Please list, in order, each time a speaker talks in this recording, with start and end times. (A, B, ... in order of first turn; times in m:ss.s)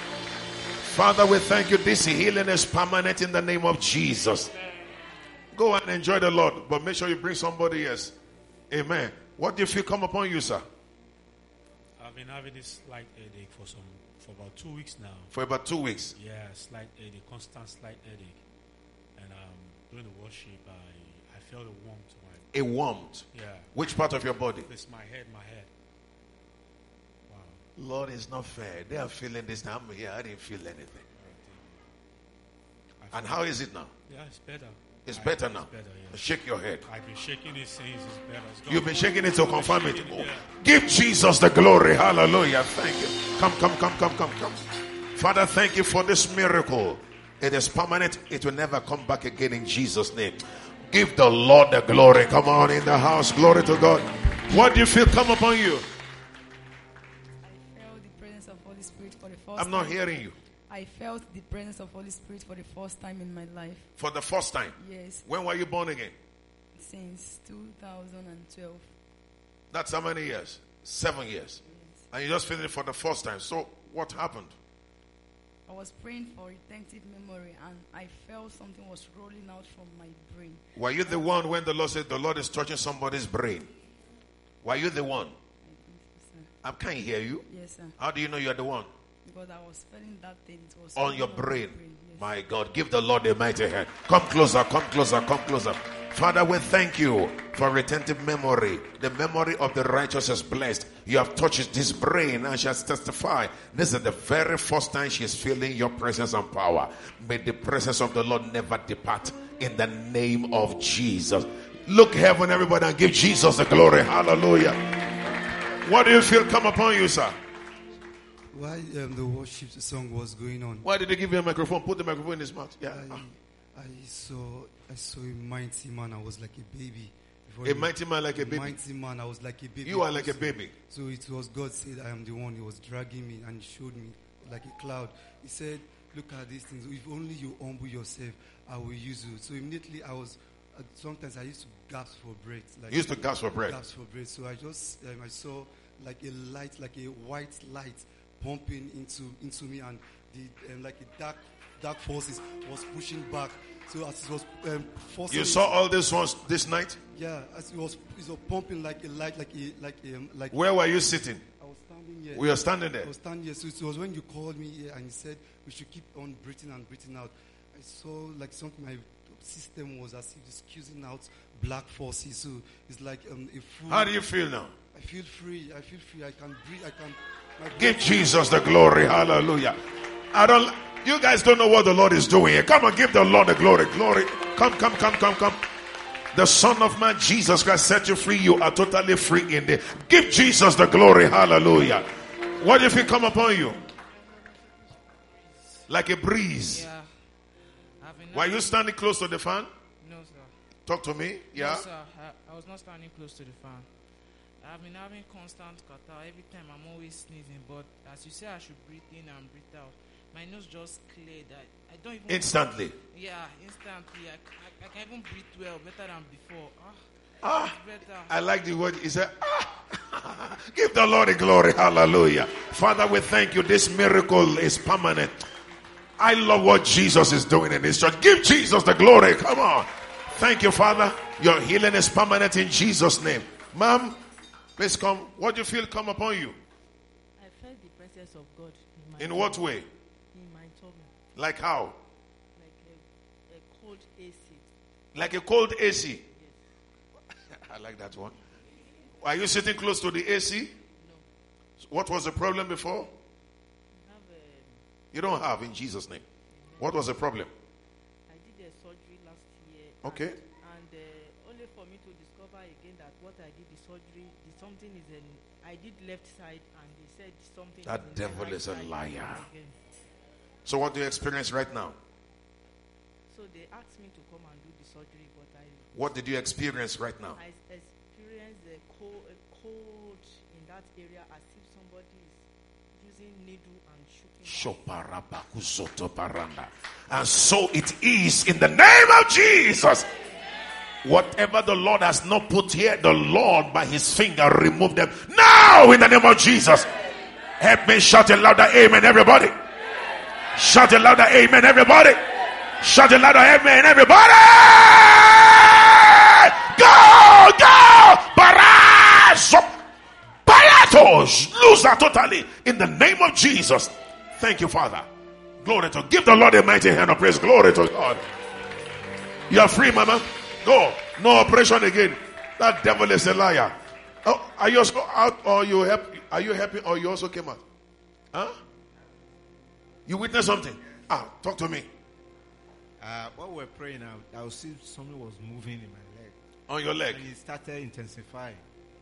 0:00.8-0:04.5 A
0:05.5-0:08.1 A
0:08.7-0:10.6 A
0:12.0-0:15.3 B
0:15.3-0:16.1 A
0:16.2-0:18.4 B
0:19.2-0:22.5 B
0:22.5-0:24.7 A
0:23.3-0:23.8 B
0:24.6-0:25.7 B
0:27.3-0:27.6 B
0:27.8-0:31.0 A
0:31.1-0:31.8 B
0:33.0-0:33.4 B
0:33.1-0:33.9 A
0:34.1-0:36.3 B
0:35.1-0:36.8 A
0:36.9-0:40.5 B
0:38.7-0:44.6 A
0:45.2-0:55.9 A
0:57.4-1:00.0 C
0:59.6-1:00.4 A
1:00.7-1:03.9 C
1:04.0-1:06.1 A
1:04.8-1:05.2 C
1:06.8-1:09.0 C
1:09.7-1:14.5 A
1:11.6-1:12.0 C
1:15.7-1:20.7 C
1:20.8-1:23.7 A
1:24.6-1:25.3 A
1:25.6-1:26.5 C
1:26.6-1:27.4 A
1:27.5-1:28.0 C
1:28.0-1:28.9 A
1:29.2-1:32.3 C
1:31.0-1:54.8 A
1:55.8-1:57.4 A
1:58.5-2:00.9 D
2:00.8-2:03.2 A
2:02.9-2:35.8 D
2:07.6-2:08.8 A
2:09.8-2:10.7 A
2:22.9-2:23.8 A
2:35.3-2:37.0 A
2:37.1-2:40.6 D
2:40.5-2:41.4 A
2:41.6-2:54.2 D
2:42.3-2:43.1 A
2:53.9-2:54.7 A
2:54.9-2:58.6 D
2:57.8-2:59.8 A
3:00.3-3:05.6 A
3:06.3-3:12.1 A
3:12.6-3:13.8 A
3:15.9-3:16.8 A
3:16.7-3:17.5 E
3:18.0-3:18.8 E
3:18.3-3:19.7 A
3:20.0-3:20.6 E
3:20.9-3:21.9 A
3:21.5-3:38.3 E
3:32.3-3:33.0 A
3:37.4-3:37.8 A
3:38.3-3:45.3 A
3:46.2-3:54.2 A
3:54.8-3:56.6 A
3:57.4-4:01.2 F
3:59.2-3:59.9 A
4:01.4-4:02.0 A
4:02.5-4:04.7 F
4:05.1-4:06.2 A
4:06.3-4:06.6 F
4:07.6-4:08.4 A
4:09.2-4:10.7 A
4:11.0-4:11.3 F
4:11.8-4:13.1 A
4:13.9-4:14.8 F
4:15.1-4:16.2 A
4:16.5-4:17.0 F
4:16.8-4:17.5 A
4:18.3-4:29.9 F
4:20.0-4:20.4 A
4:27.8-4:29.4 A
4:30.7-4:32.0 A
4:33.3-4:36.5 F
4:35.9-4:37.4 A
4:37.3-4:44.8 F
4:44.4-4:50.1 A
4:51.0-4:56.9 A
4:57.6-4:59.5 A
5:00.6-5:02.2 A
5:02.8-5:09.8 A
5:10.5-5:15.1 A
5:15.6-5:18.2 A
5:19.5-5:27.6 A
5:28.3-5:28.6 A
5:30.1-5:31.9 A
5:33.0-5:36.4 G
5:36.7-5:37.2 A
5:37.1-5:38.6 G